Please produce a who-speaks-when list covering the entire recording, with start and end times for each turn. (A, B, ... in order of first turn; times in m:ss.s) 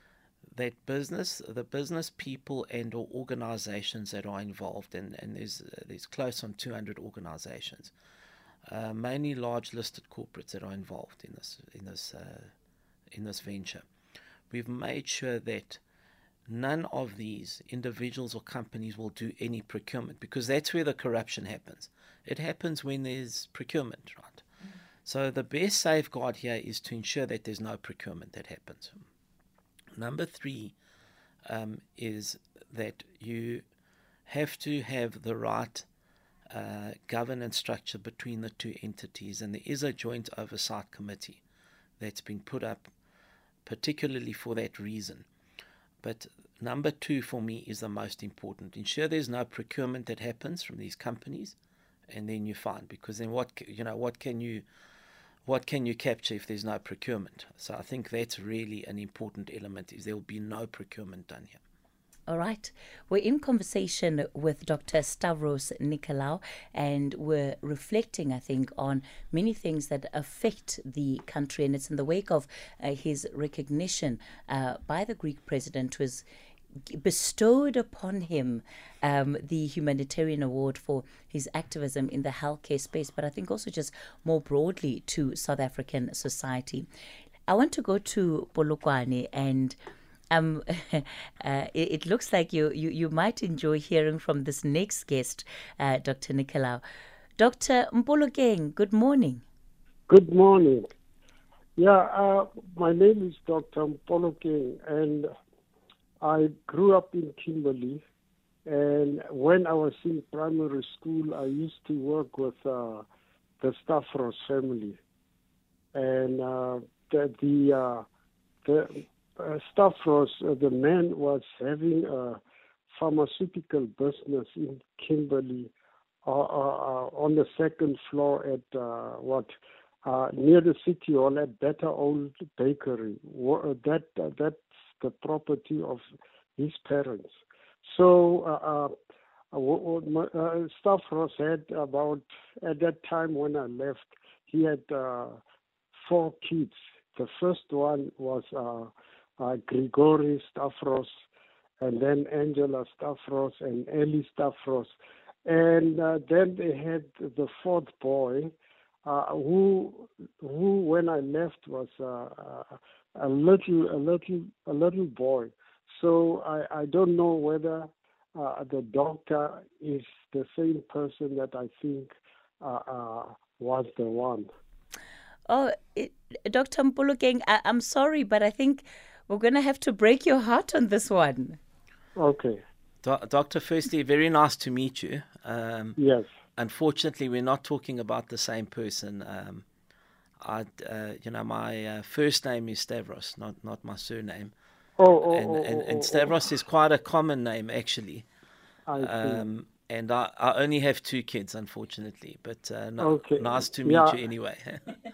0:00.5-0:07.9 A
0:08.7-0:12.5 A
0:13.1-0:13.8 A
0:14.5-0:15.8 A
0:16.5-0:24.4 A
0:25.0-0:29.0 A
0:30.0-0:30.7 A
0:31.4-0:33.6 A
0:34.3-0:35.8 A
0:36.5-0:41.4 A
0:42.0-0:42.9 A
0:43.6-0:45.2 A
0:46.0-0:51.6 A
0:52.1-0:54.6 A
0:55.4-1:01.6 A
1:02.3-1:16.2 B
1:16.8-1:26.9 B
1:27.5-1:29.8 B
1:30.3-1:36.8 B
1:37.4-1:39.4 B
1:40.1-1:40.9 C
1:41.8-1:45.3 C
1:46.2-1:48.0 C
1:48.6-1:53.0 C
1:53.6-1:55.0 C
1:55.9-1:58.0 C
1:58.6-2:02.4 C
2:02.9-2:05.7 C
2:06.2-2:09.5 C
2:10.0-2:16.0 C
2:16.6-2:17.3 C
2:17.9-2:18.9 C
2:19.5-2:25.4 C
2:26.0-2:31.1 C
2:31.8-2:34.9 C
2:35.4-2:38.5 C
2:39.0-2:54.5 C
2:55.5-3:01.6 B
3:02.2-3:02.6 C
3:03.0-3:06.0 A
3:06.0-3:06.3 C
3:06.6-3:09.6 A
3:10.4-3:14.5 A
3:15.0-3:16.4 C
3:15.3-3:18.3 A
3:18.9-3:19.5 C
3:19.0-3:25.0 A
3:23.0-3:24.2 C